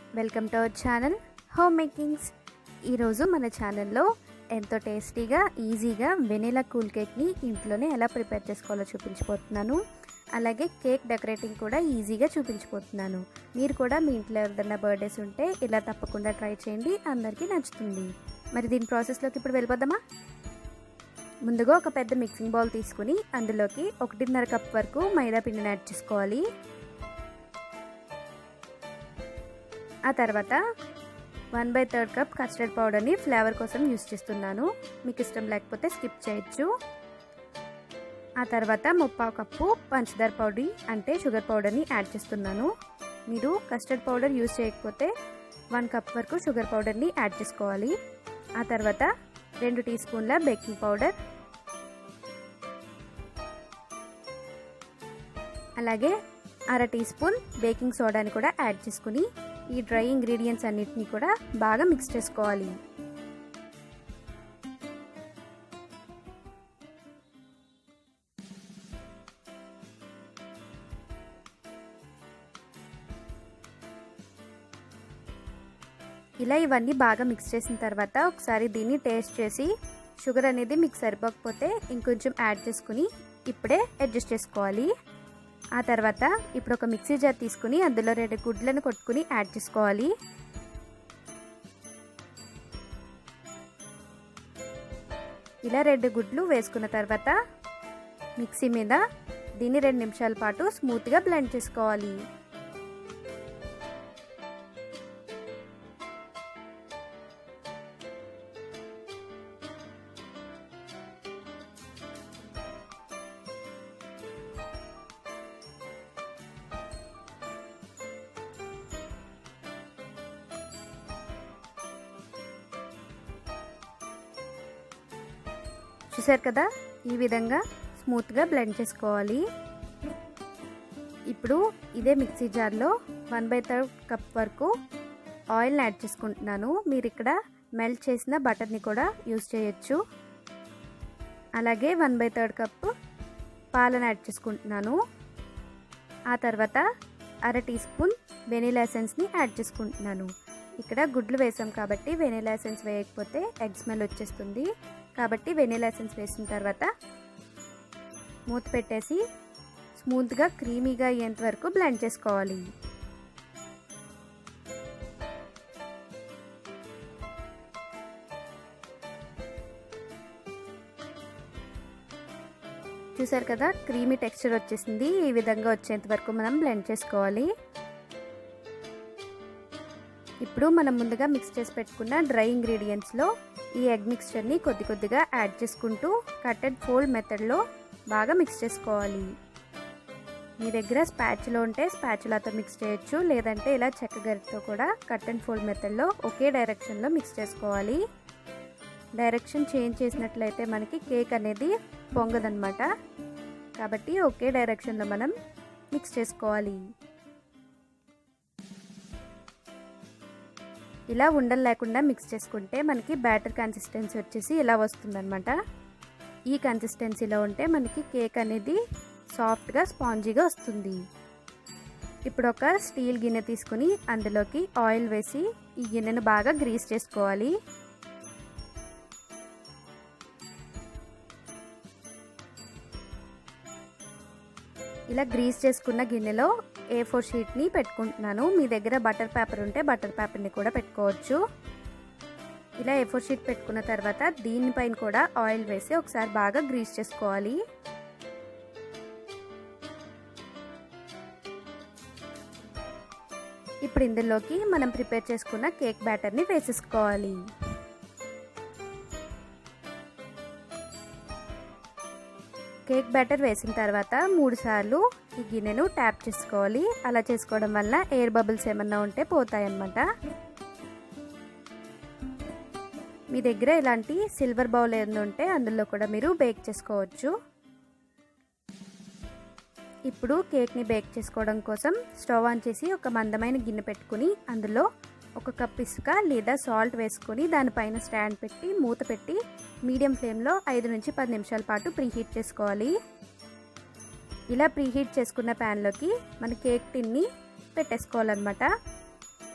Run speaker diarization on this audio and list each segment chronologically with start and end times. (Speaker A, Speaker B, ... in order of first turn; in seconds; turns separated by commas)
Speaker A: 0.2-2.3, Speaker A: 2.9-9.8, Speaker A: 10.3-20.0, Speaker A: 21.4-26.4, Speaker A: 30.1-30.6, Speaker A: 31.5-36.7, Speaker A: 38.4-42.7, Speaker A: 43.3-45.1, Speaker A: 45.7-47.9, Speaker A: 48.6-49.1, Speaker A: 49.6-51.1, Speaker A: 55.8-56.1, Speaker A: 56.7-62.7, Speaker A: 76.4-84.9, Speaker A: 85.8-90.1, Speaker A: 95.6-97.3, Speaker A: 98.4-99.0, Speaker A: 99.6-102.2, Speaker A: 126.1-129.4, Speaker A: 131.3-134.7, Speaker A: 135.5-140.0, Speaker A: 141.6-142.9, Speaker A: 143.7-144.9, Speaker A: 146.3-146.8, Speaker A: 147.5-156.9, Speaker A: 158.5-159.2, Speaker A: 160.0-162.6, Speaker A: 173.2-177.5, Speaker A: 180.4-183.3, Speaker A: 183.8-189.3, Speaker A: 190.6-198.0, Speaker A: 199.2-202.9, Speaker A: 203.8-205.3, Speaker A: 205.9-206.8, Speaker A: 211.1-215.5, Speaker A: 216.5-218.8, Speaker A: 219.3-221.0, Speaker A: 222.3-227.5, Speaker A: 235.1-241.4, Speaker A: 242.8-247.6, Speaker A: 253.8-257.4, Speaker A: 262.9-270.0, Speaker A: 273.3-277.3, Speaker A: 280.1-284.9, Speaker A: 285.4-292.9, Speaker A: 294.5-298.7